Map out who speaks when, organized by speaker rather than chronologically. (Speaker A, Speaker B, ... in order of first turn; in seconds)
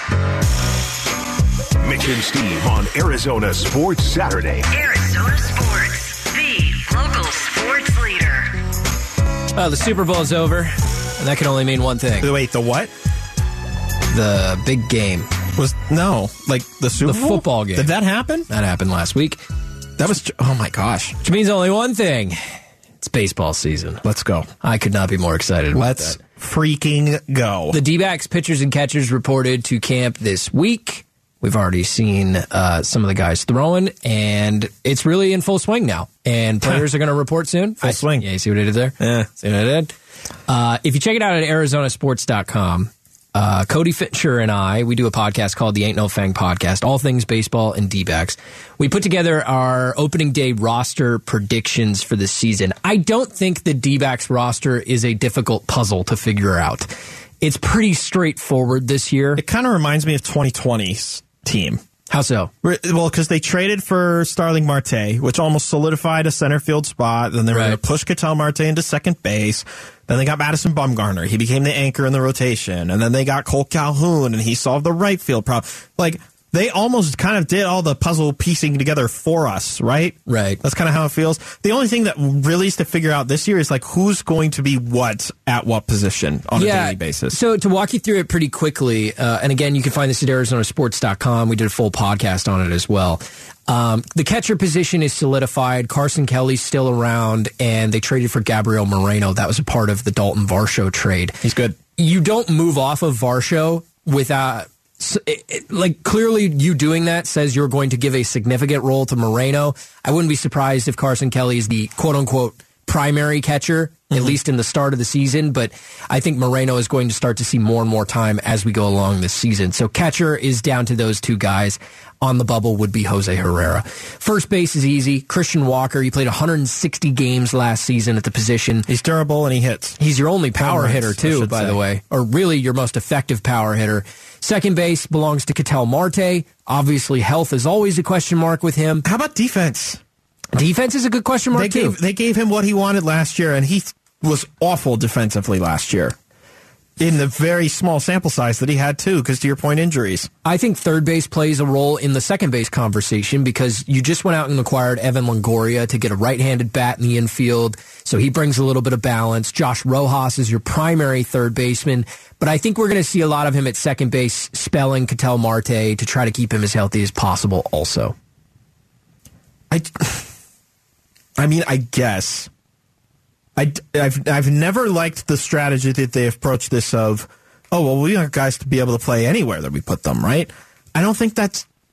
Speaker A: 1.8-4.7
Speaker B: 4.7-8.6
Speaker C: 9.5-12.3, 14.1-15.3, 17.0-17.9, 18.5-19.4, 21.2-24.0, 24.6-26.2, 27.7-39.9, 40.5-56.9, 57.4-59.4, 62.1-62.5, 67.5-67.8, 80.2-80.6, 86.5-101.4, 101.9-128.9, 130.0-139.1, 140.5-142.0, 150.4-168.1
Speaker D: 12.2-12.9, 15.6-18.5, 20.0-21.2, 24.0-24.5, 25.7-27.8, 37.8-38.2, 39.0-39.3, 59.4-61.8, 62.6-87.4, 101.4-101.8, 114.1-114.3, 128.9-130.0, 130.6-131.8, 139.0-140.0, 141.5-146.1, 147.0-150.3, 169.7-170.3, 171.4-172.5, 173.6-181.7